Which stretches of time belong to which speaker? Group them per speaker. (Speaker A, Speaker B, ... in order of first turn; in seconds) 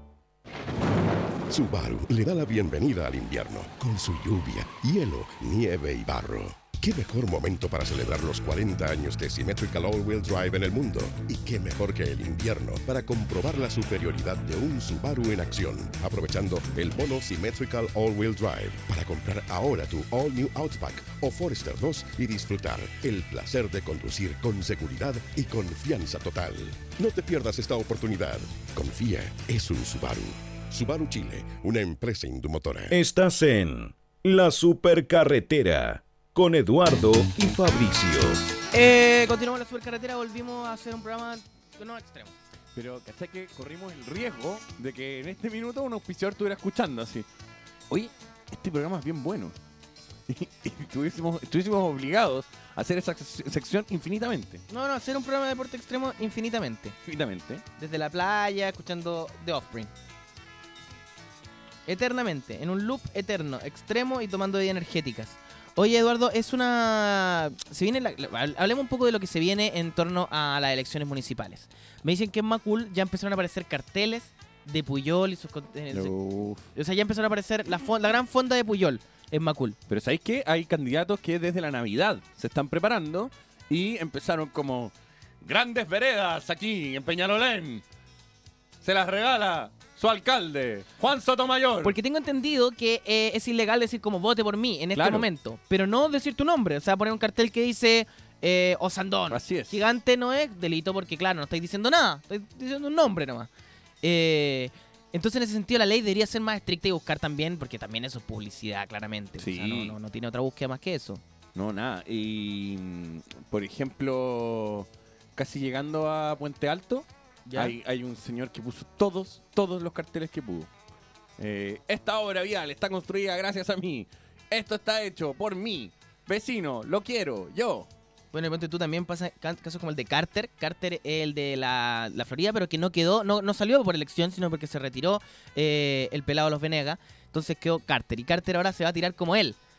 Speaker A: 1.5-33.0
Speaker B: 32.9-38.4
Speaker C: 38.7-42.3, 54.7-57.0, 57.8-59.9, 61.9-76.1, 76.7-79.8, 91.8-103.5, 104.0-111.2, 117.5-117.8, 128.3-139.6
Speaker D: 42.7-47.2, 47.9-49.5, 50.3-54.6, 57.0-57.6, 75.9-76.7, 79.9-87.8, 88.8-91.9, 95.0-95.3, 99.3-99.8, 109.4-109.9, 111.5-120.7, 121.4-127.9